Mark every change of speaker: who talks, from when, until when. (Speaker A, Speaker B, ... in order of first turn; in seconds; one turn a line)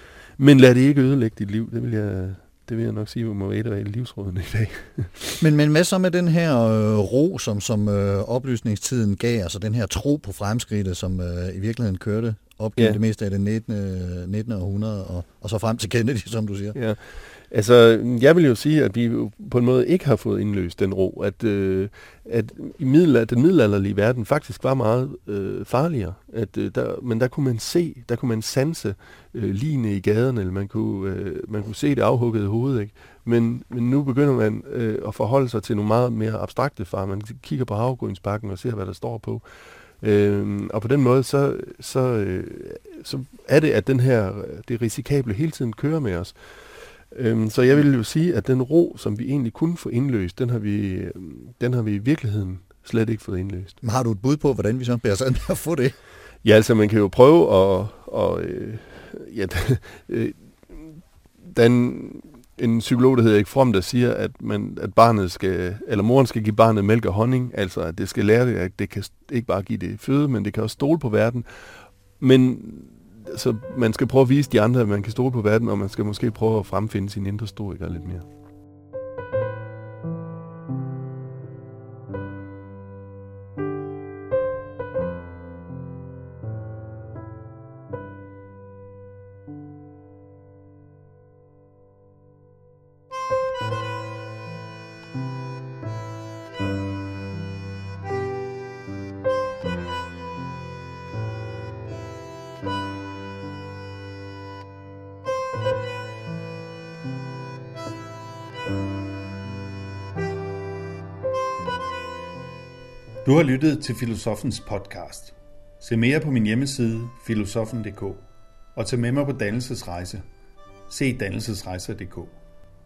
Speaker A: 0.4-5.4
Speaker B: 5.4-16.8
Speaker A: 16.7-39.4
Speaker A: 40.0-46.4
Speaker A: 47.1-53.8
Speaker B: 53.8-55.9
Speaker A: 56.4-71.5
Speaker A: 72.2-78.2
Speaker C: 113.2-118.2
Speaker C: 118.8-120.2
Speaker C: 120.9-122.3